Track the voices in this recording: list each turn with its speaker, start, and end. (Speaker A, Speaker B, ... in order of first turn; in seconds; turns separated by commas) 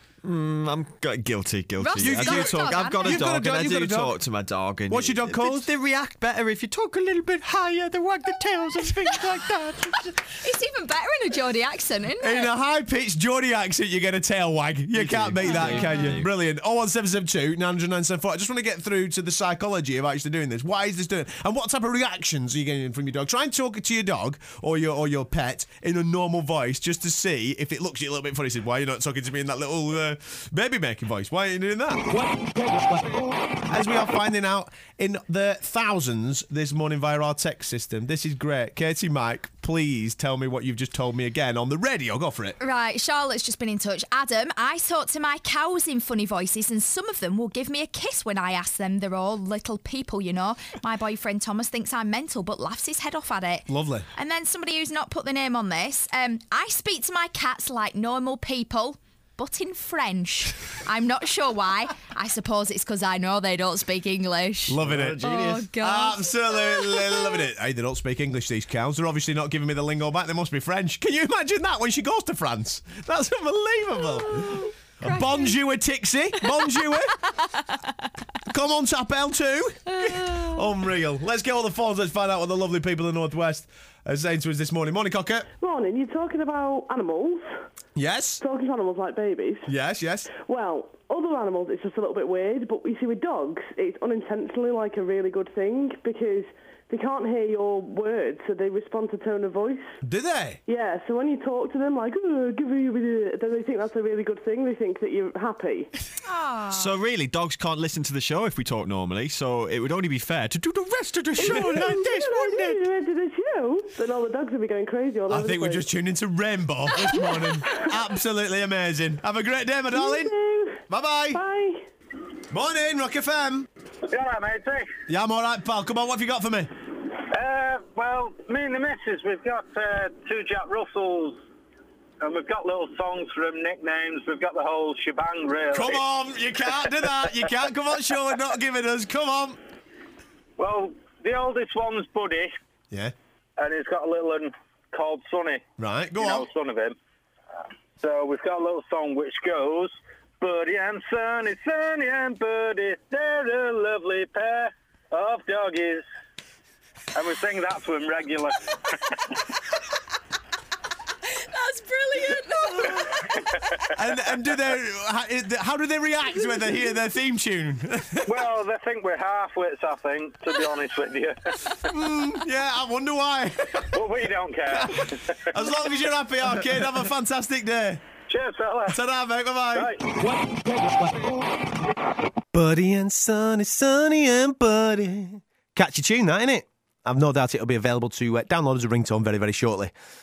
Speaker A: 0.2-10.2, Speaker B: 1.8-3.5, Speaker C: 2.0-4.2, Speaker C: 4.9-5.7, Speaker B: 9.0-9.3, Speaker B: 10.1-12.5, Speaker C: 12.2-32.2, Speaker A: 14.9-16.3, Speaker B: 15.4-16.2, Speaker C: 33.7-42.6, Speaker B: 42.6-67.4, Speaker C: 53.7-54.1, Speaker C: 64.7-77.2, Speaker A: 64.8-65.7, Speaker B: 74.1-75.5, Speaker C: 78.5-85.5, Speaker B: 80.0-80.5, Speaker D: 85.6-87.5, Speaker C: 88.0-88.4, Speaker D: 88.4-89.7, Speaker C: 89.7-90.3, Speaker D: 90.3-100.0, Speaker C: 100.0-100.6, Speaker D: 100.7-105.9, Speaker B: 106.2-107.0, Speaker A: 106.7-112.8, Speaker D: 111.4-115.9, Speaker C: 111.4-111.7, Speaker C: 115.3-120.3, Speaker D: 119.9-121.8, Speaker C: 120.9-121.4, Speaker C: 122.5-123.7, Speaker E: 124.1-124.9, Speaker C: 125.1-126.7, Speaker E: 127.3-131.4, Speaker E: 132.2-136.0, Speaker C: 135.7-139.6, Speaker E: 140.6-142.6, Speaker E: 143.6-145.6, Speaker C: 145.8-146.5, Speaker E: 146.2-147.0, Speaker E: 148.0-156.1, Speaker E: 157.2-158.6, Speaker B: 161.3-163.3, Speaker C: 163.9-168.4, Speaker E: 168.2-171.5, Speaker C: 171.8-174.0, Speaker E: 173.9-175.4, Speaker C: 174.7-178.0, Speaker E: 178.3-179.0, Speaker C: 178.9-180.0, Speaker E: 179.7-180.0, Speaker C: 182.5-189.9